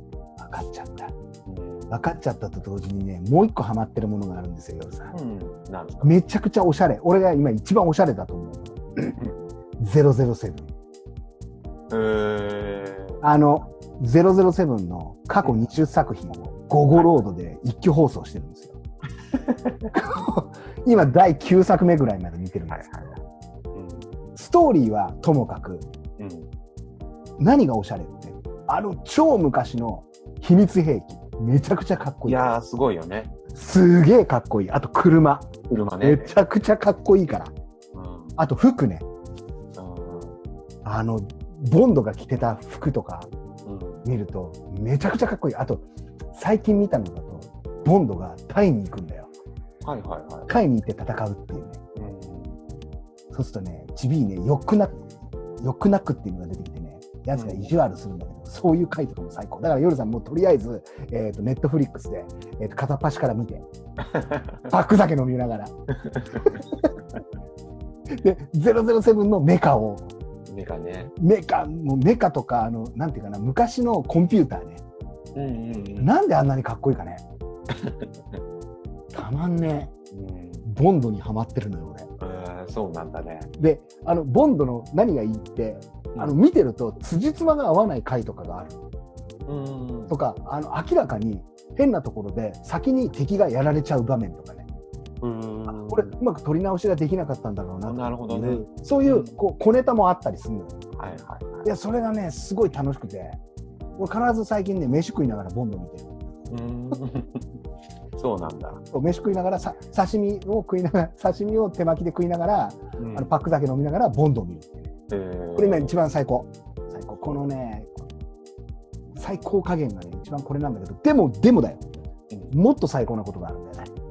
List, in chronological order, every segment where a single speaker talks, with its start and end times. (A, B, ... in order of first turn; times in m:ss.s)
0:00.4-0:01.1 A
0:01.4-0:02.1 B
0:01.9-0:05.1 A
0:05.1-0:06.2 B
0:06.0-0:09.2 A
0:09.8-0:10.7 A
0:11.9-0:13.2 B
0:13.2-0:18.8 A
0:16.9-0:17.2 B
0:19.3-0:19.9 B
0:19.9-0:23.1 A
0:22.7-0:23.2 B
0:23.7-0:24.1 B
0:24.3-0:25.9 A
0:26.2-0:26.5 B
0:27.4-0:32.6 A
0:32.2-0:33.3 B
0:33.5-0:37.5 A
0:35.7-0:36.4 B
0:37.9-0:38.4 B
0:38.4-0:39.0 A
0:39.8-0:40.4 B
0:40.8-0:43.3 A
0:43.6-0:44.0 B
0:44.0-0:49.3 A
0:49.8-0:50.5 B
0:50.5-0:51.8 A
0:52.0-0:52.6 B
0:53.3-1:03.6 A
0:57.3-0:57.7 B
1:04.7-1:05.8 A
1:06.3-1:06.9 A
1:08.1-1:10.0 A
1:10.5-1:11.1 B
1:11.2-1:14.8 A
1:15.3-1:16.1 B
1:16.0-1:17.2 A
1:17.7-1:18.4 B
1:19.1-1:19.9 A
1:20.1-1:20.6 B
1:20.6-1:22.1 A
1:22.2-1:23.5 B
1:23.6-1:28.8 A
1:29.5-1:30.2 B
1:30.1-1:34.6 A
1:35.2-1:36.1 B
1:35.7-1:40.8 A
1:37.8-1:39.4 B
1:41.0-1:41.6 B
1:41.6-1:43.4 A
1:44.0-1:46.1 A
1:46.5-1:47.5 B
1:48.2-1:48.8 B
1:48.9-1:54.9 A
1:53.0-1:53.3 B
1:55.1-1:55.9 B
1:55.6-1:57.9 A
1:59.1-2:01.8 A
2:02.5-2:03.9 A